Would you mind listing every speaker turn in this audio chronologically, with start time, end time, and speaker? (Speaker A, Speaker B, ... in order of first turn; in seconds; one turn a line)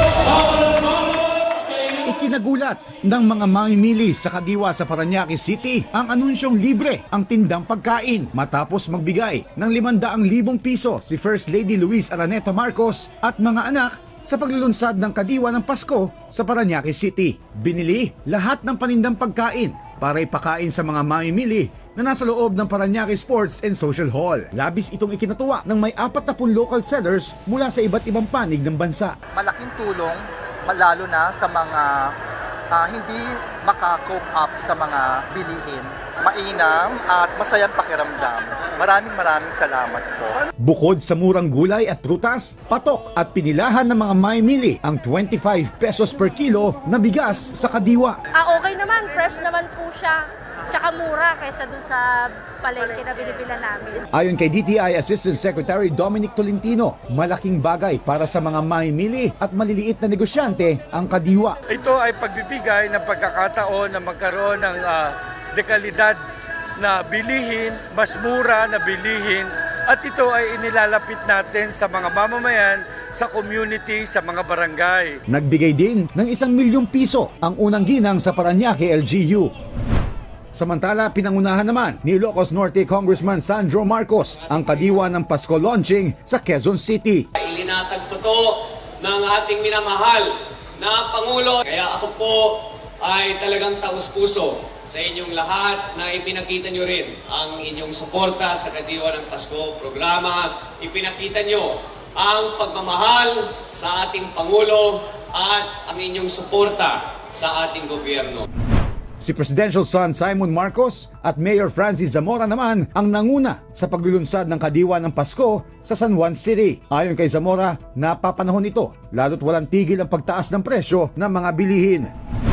Speaker A: 2.0-29.2
Speaker B: 29.3-32.1
Speaker B: 32.7-40.4
Speaker A: 40.6-48.2
Speaker C: 48.3-54.0
Speaker A: 54.1-61.6
Speaker D: 61.7-66.2
Speaker D: 66.8-75.2
Speaker A: 75.3-79.5
Speaker A: 80.5-87.2
Speaker E: 87.4-108.4
Speaker A: 109.2-122.1